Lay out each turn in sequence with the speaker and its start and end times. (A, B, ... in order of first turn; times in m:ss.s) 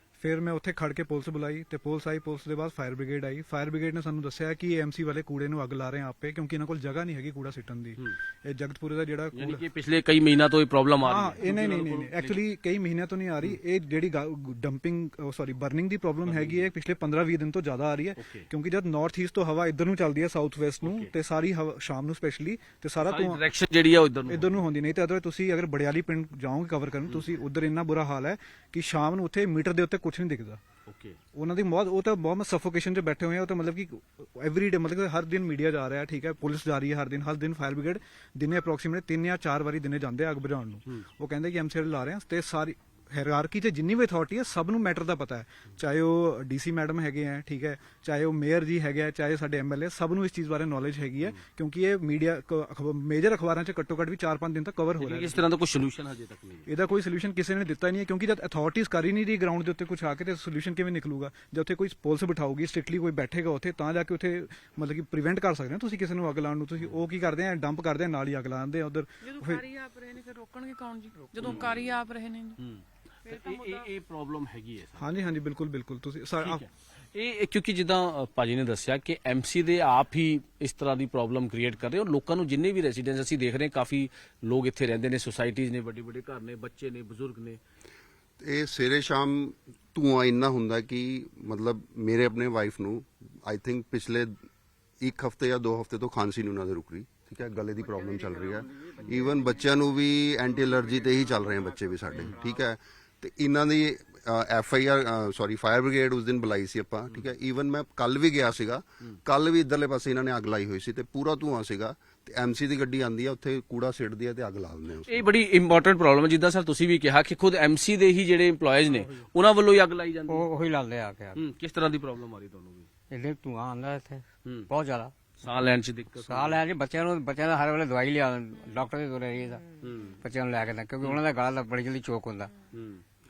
0:00.2-0:09.6 A
0:09.3-0:12.4 B
0:11.0-0:23.4 A
0:16.2-0:16.6 B
0:18.2-0:18.4 B
0:20.8-0:21.1 B
0:23.0-0:24.6 B
0:24.3-0:30.6 A
0:30.9-0:31.2 B
0:31.3-0:55.4 A
0:55.0-0:56.6 B
0:56.7-1:09.6 A
1:09.2-1:12.6 C
1:11.4-1:11.8 B
1:12.6-1:15.1 B
1:13.3-1:13.8 C
1:15.0-1:16.6 A
1:16.4-1:27.6 B
1:28.4-1:34.4 D
1:35.0-1:55.2 D
1:55.1-2:00.4 B
2:00.3-2:01.4 E
2:01.3-2:02.9 B
2:03.1-2:05.1 E
2:05.4-2:06.6 B
2:06.2-2:09.6 E
2:09.8-2:10.1 B
2:10.2-2:12.5 E
2:12.7-2:13.0 B